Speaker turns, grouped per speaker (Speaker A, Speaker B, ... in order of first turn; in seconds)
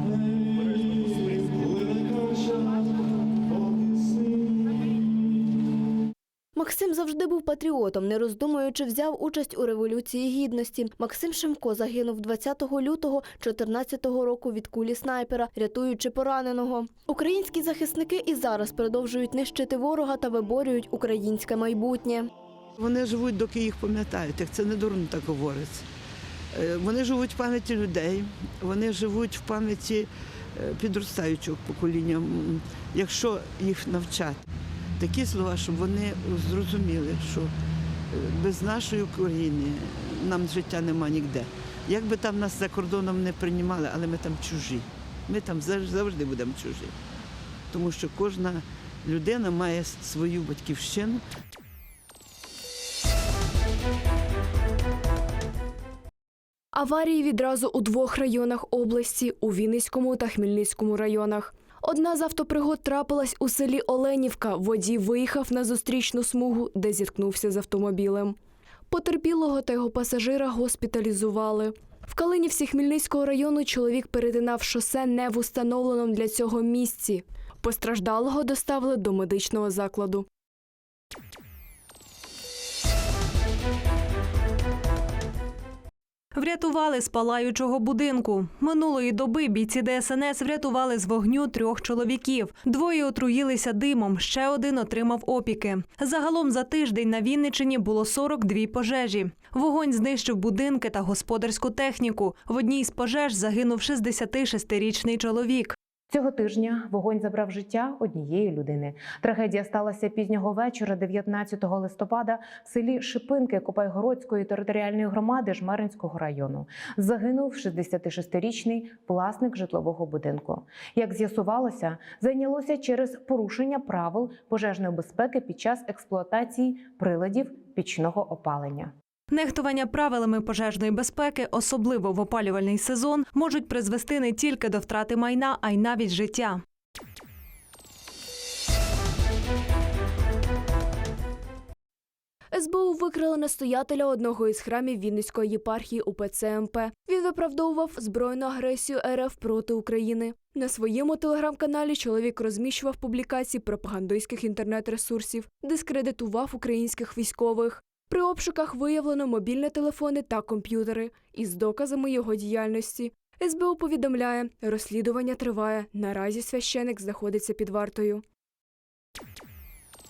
Speaker A: 6.5-22.2
Speaker B: 22.8-25.9, 26.5-34.4, 35.0-37.5, 38.1-46.9, 47.7-51.2
Speaker C: 56.7-68.3, 68.9-80.2, 142.5-168.2
Speaker D: 86.3-105.7, 129.3-136.6
Speaker E: 106.1-128.9